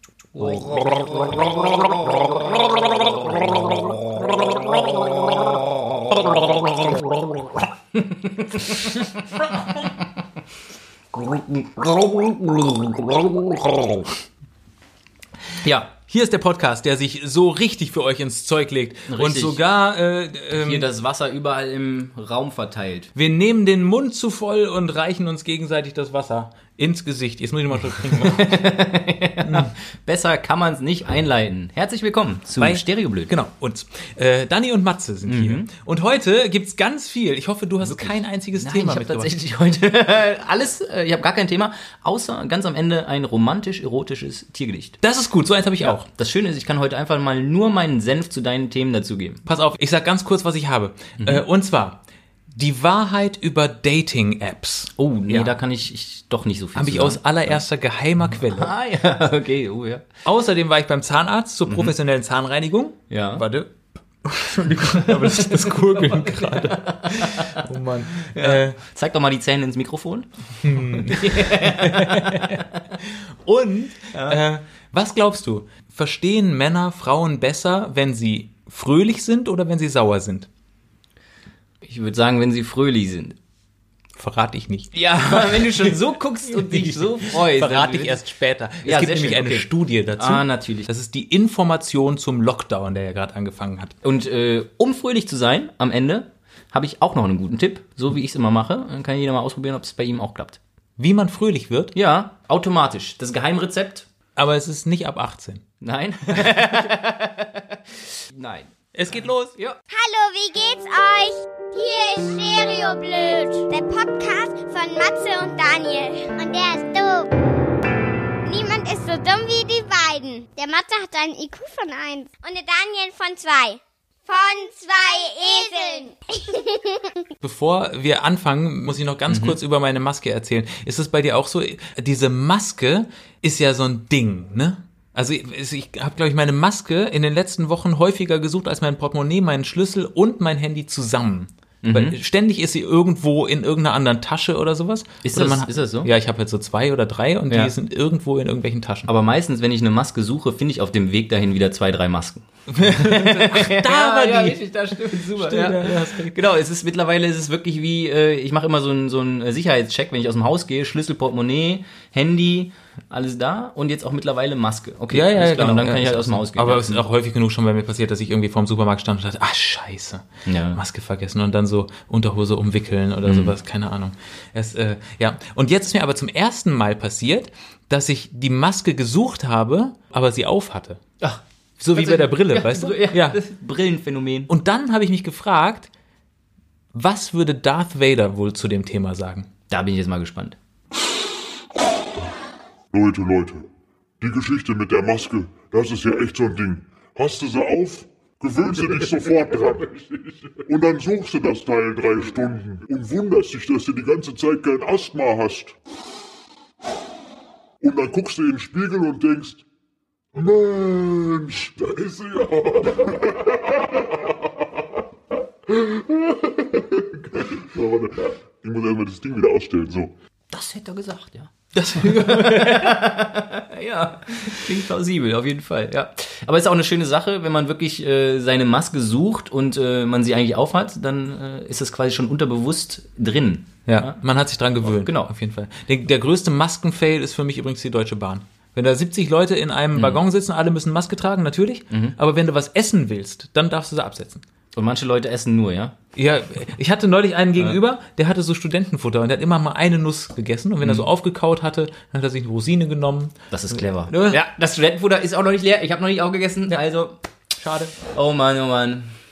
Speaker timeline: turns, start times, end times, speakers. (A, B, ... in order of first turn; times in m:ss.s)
0:00.4-0:07.3 A
0:07.9-0:09.9 A
0:11.1-0:14.0 A
0:15.6-0:15.9 A
0:16.0-0:20.9 B
0:19.1-0:19.6 A
0:20.5-0:23.1 A
0:23.2-0:28.6 B
0:28.0-0:33.3 A
0:29.4-0:29.7 B
0:32.6-0:39.3 B
0:35.3-0:35.7 A
0:37.8-0:45.0 A
0:45.0-0:46.1 B
0:45.8-0:49.4 A
0:49.5-0:52.0 B
0:52.6-0:55.5 B
0:55.0-0:57.6 A
0:56.8-0:58.7 B
0:58.3-1:00.0 A
1:00.2-1:03.7 B
1:03.1-1:03.4 A
1:04.2-1:08.8 B
1:05.1-1:07.6 A
1:08.2-1:12.8 A
1:10.6-1:20.5 B
1:14.1-1:14.4 A
1:21.8-1:23.4 A
1:24.2-1:26.0 B
1:24.9-1:28.2 A
1:26.5-1:34.0 B
1:28.8-1:30.9 A
1:34.0-1:40.6 A
1:41.0-1:41.9 B
1:42.0-1:44.1 A
1:44.4-1:45.6 B
1:45.8-1:48.7 A
1:48.9-1:49.6 B
1:49.9-1:57.3 C
1:58.5-2:07.1 C
2:07.4-2:29.1 B
2:09.3-2:09.6 A
2:21.8-2:22.2 A
2:25.2-2:26.1 A
2:29.1-2:47.0 A
2:32.7-2:36.4 B
2:45.1-3:01.0 B
2:50.5-2:50.8 A
2:53.2-2:53.6 A
3:01.8-3:03.4 B
3:02.0-3:04.5 A
3:04.5-3:05.9 B
3:06.9-3:09.5 B
3:09.7-3:10.6 A
3:12.9-3:13.7 D
3:14.2-3:20.0 D
3:20.6-3:25.8 D
3:27.8-3:29.6 D
3:30.3-3:34.3 D
3:35.7-3:40.1 D
3:40.5-3:54.2 A
3:41.7-3:43.0 B
3:53.9-4:04.4 B
3:54.8-3:55.3 A
4:00.0-4:00.2 A
4:01.9-4:02.2 A
4:04.7-4:06.0 A
4:06.2-4:14.5 B
4:13.5-4:17.2 A
4:17.6-4:18.0 B
4:18.0-4:19.1 A